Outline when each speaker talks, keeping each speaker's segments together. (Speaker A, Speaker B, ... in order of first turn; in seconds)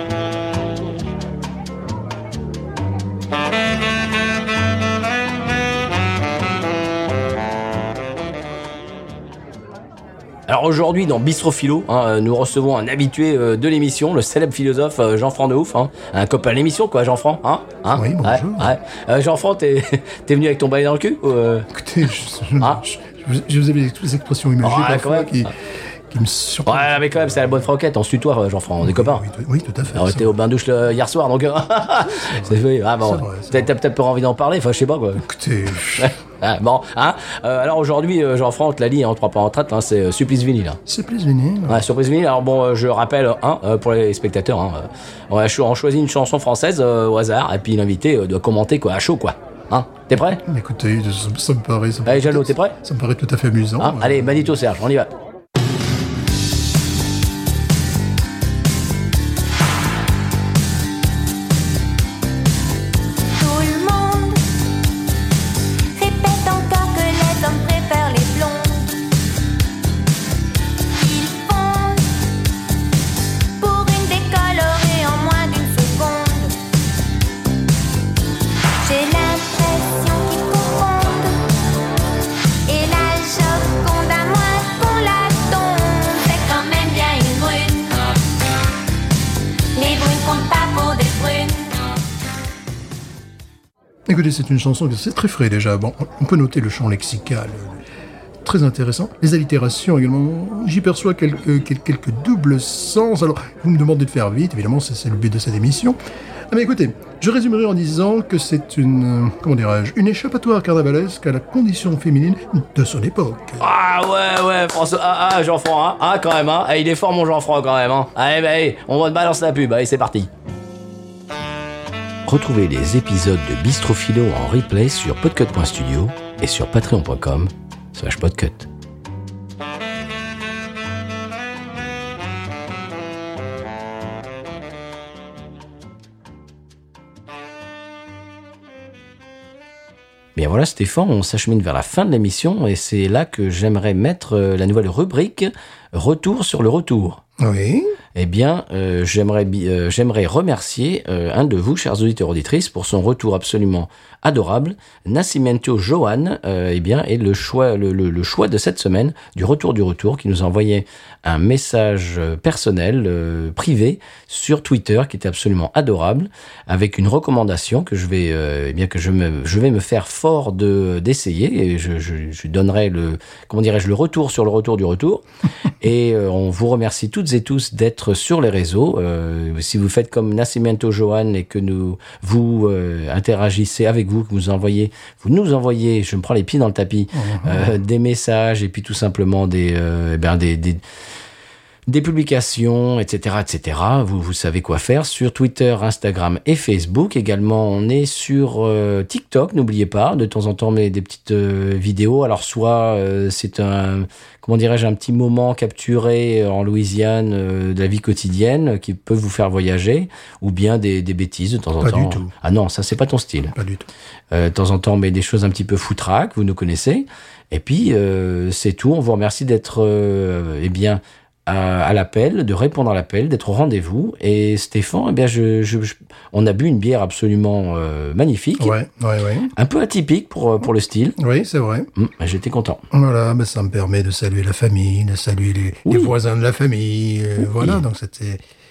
Speaker A: 10.5-21.7, 24.6-25.5, 26.7-29.2, 29.9-35.3, 36.0-40.8, 41.7-50.4, 52.1-52.8, 53.8-55.1, 113.6-120.3, 122.3-128.7, 140.4-147.2, 148.2-175.2, 175.8-190.8, 191.9-213.5, 214.3-228.7, 229.6-231.2, 231.9-232.8, 235.9-236.1
Speaker B: 17.9-18.7, 21.7-27.5, 28.8-30.4, 32.1-33.7, 35.2-36.1, 40.9-41.9, 50.1-54.5, 94.1-97.8, 98.4-106.0, 106.5-113.6, 147.4-148.0, 187.1-187.8, 211.8-212.3, 213.5-213.9, 228.6-229.5, 231.2-231.9, 232.9-238.4
Speaker C: 63.3-64.4, 65.9-69.0, 70.9-72.2, 73.6-76.5, 78.8-81.7, 82.7-88.2, 89.8-91.8